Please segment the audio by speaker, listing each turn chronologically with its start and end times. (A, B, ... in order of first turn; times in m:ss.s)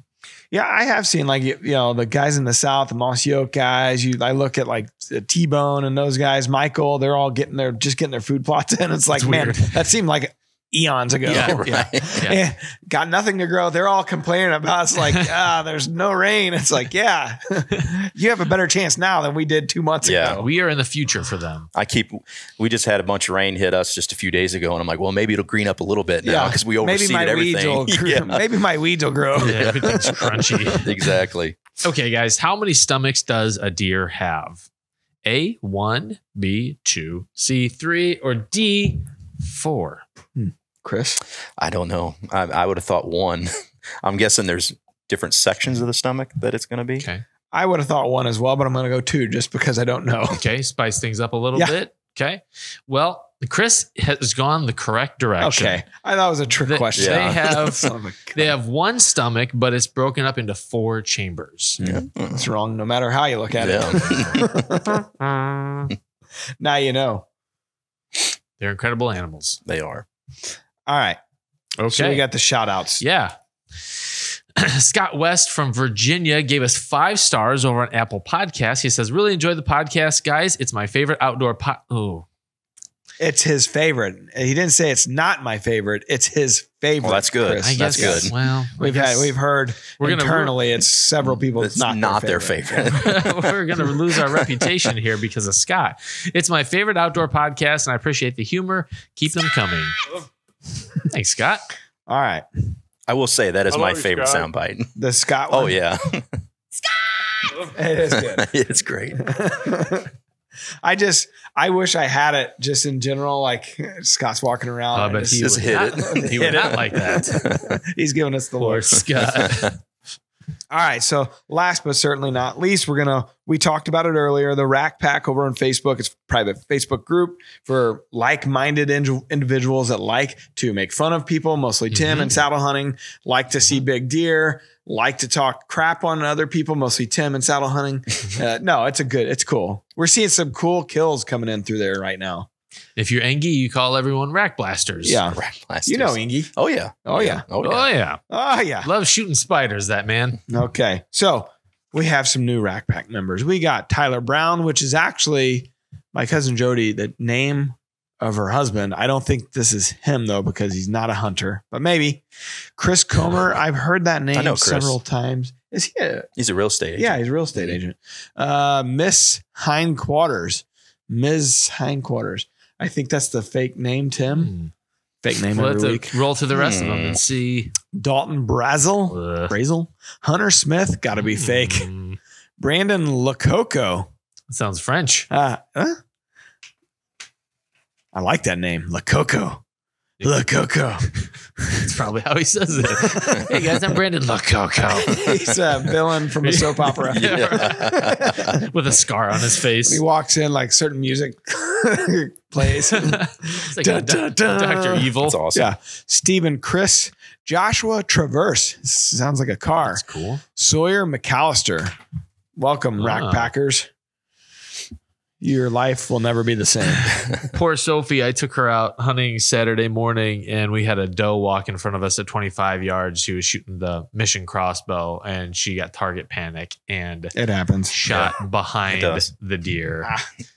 0:00.5-0:20.5 A
0:09.2-0:09.7 B
0:11.2-0:12.4 C
0:11.3-0:11.6 B
0:20.0-0:20.4 C
0:20.3-0:21.7 B
0:21.7-0:28.4 C
0:26.2-0:30.2 A
0:29.4-0:31.0 B
0:29.4-0:30.2 C
0:30.7-0:31.6 C
0:31.8-0:34.6 B
0:35.2-0:40.0 B
0:40.4-0:41.2 A
0:41.6-0:47.0 C
0:47.5-0:50.4 A
0:50.3-0:55.8 B
0:55.4-0:58.5 A
0:56.7-1:01.8 B
0:57.0-0:57.7 C
1:01.8-1:05.0 A
1:01.8-1:02.5 C
1:03.6-1:04.8 C
1:06.6-1:07.2 A
1:08.6-1:09.6 B
1:09.6-1:10.0 C
1:10.9-1:11.2 A
1:11.8-1:12.2 B
1:11.9-1:13.0 A
1:13.0-1:22.2 B
1:23.2-1:32.9 A
1:27.0-1:28.3 C
1:27.7-1:29.3 B
1:30.0-1:30.6 B
1:31.6-1:33.6 C
1:32.9-1:40.0 B
1:34.1-1:34.7 C
1:41.1-1:41.6 B
1:42.1-1:42.4 A
1:43.1-1:44.9 C
1:45.0-1:45.8 A
1:45.5-1:46.4 C
1:47.5-1:48.5 A
1:48.2-1:49.2 C
1:49.2-1:50.1 A
1:50.8-1:59.0 A
1:54.9-1:57.5 B
1:55.3-1:57.7 C
1:58.6-1:59.7 B
1:59.2-1:59.7 C
2:00.7-2:22.5 A
2:11.9-2:12.3 B
2:23.0-2:25.2 B
2:25.0-2:26.5 A
2:25.3-2:27.9 C
2:27.0-2:27.4 A
2:27.6-2:28.2 B
2:28.3-2:28.9 A
2:28.8-2:30.4 B
2:30.5-2:42.2 A
2:42.8-2:46.3 A
2:44.3-2:45.0 C
2:46.4-2:47.8 C
2:47.0-2:54.5 A
2:54.4-2:54.7 B
2:55.2-2:56.2 A
2:55.5-2:57.7 B
2:56.5-2:57.2 C
2:57.9-3:01.9 A
2:59.1-2:59.5 B
3:01.2-3:02.2 B
3:02.6-3:04.1 A
3:04.5-3:05.3 B
3:05.3-3:06.0 A
3:08.1-3:09.6 A
3:10.2-3:11.1 A
3:11.8-3:15.5 B
3:12.8-3:13.7 A
3:14.9-3:18.7 A
3:15.2-3:15.5 C
3:16.4-3:20.0 B
3:17.1-3:18.6 C
3:19.8-3:30.0 A
3:22.9-3:25.4 B
3:25.2-3:25.7 C
3:29.8-3:30.4 B
3:30.5-3:31.9 A
3:32.6-3:33.9 A
3:33.0-3:33.5 B
3:35.4-3:37.1 A
3:37.4-3:47.3 B
3:47.3-3:47.9 A
3:47.9-3:50.1 B
3:48.1-3:48.3 C
3:48.9-3:49.3 C